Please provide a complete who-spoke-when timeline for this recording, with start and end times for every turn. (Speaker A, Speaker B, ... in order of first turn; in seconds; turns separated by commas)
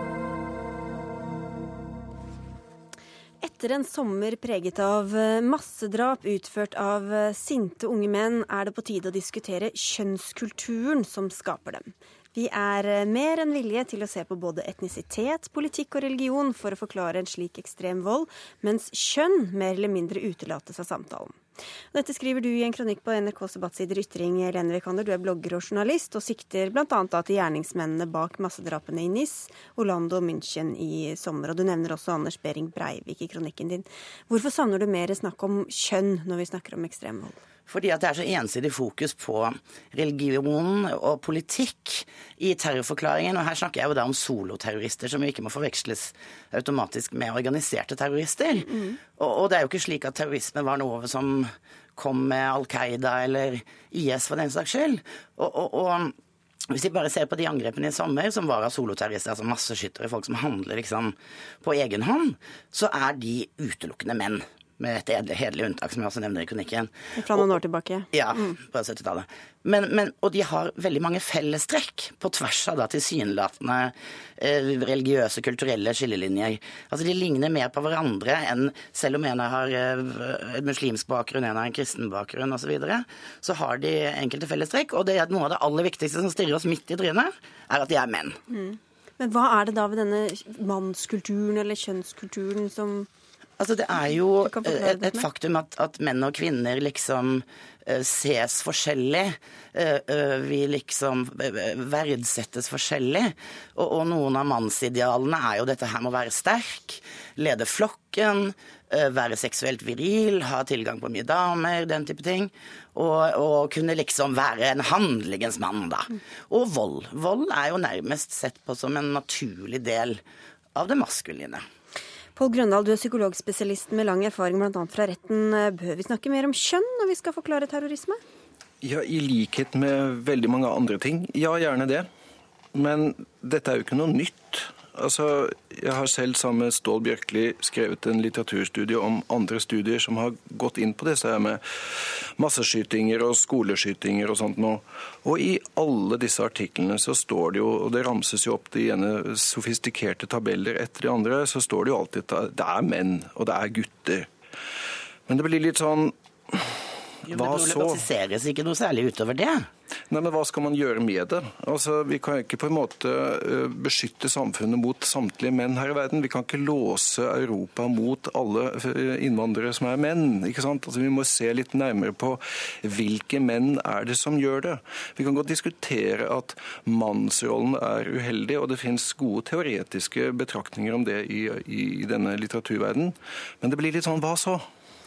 Speaker A: 3.4-37.4, Speaker B: 37.7-56.1, Speaker A: 48.7-49.0, Speaker B: 56.7-67.5, Speaker A: 67.1-68.5, Speaker B: 68.1-88.4, Speaker A: 88.5-93.1, Speaker B: 93.6-120.2, Speaker A: 94.4-95.2, Speaker B: 120.7-121.6, Speaker A: 122.3-128.2, Speaker C: 128.8-132.1, Speaker C: 132.7-154.3, Speaker C: 155.3-156.7, Speaker B: 157.3-159.7, Speaker C: 157.3-158.0, Speaker C: 160.1-184.7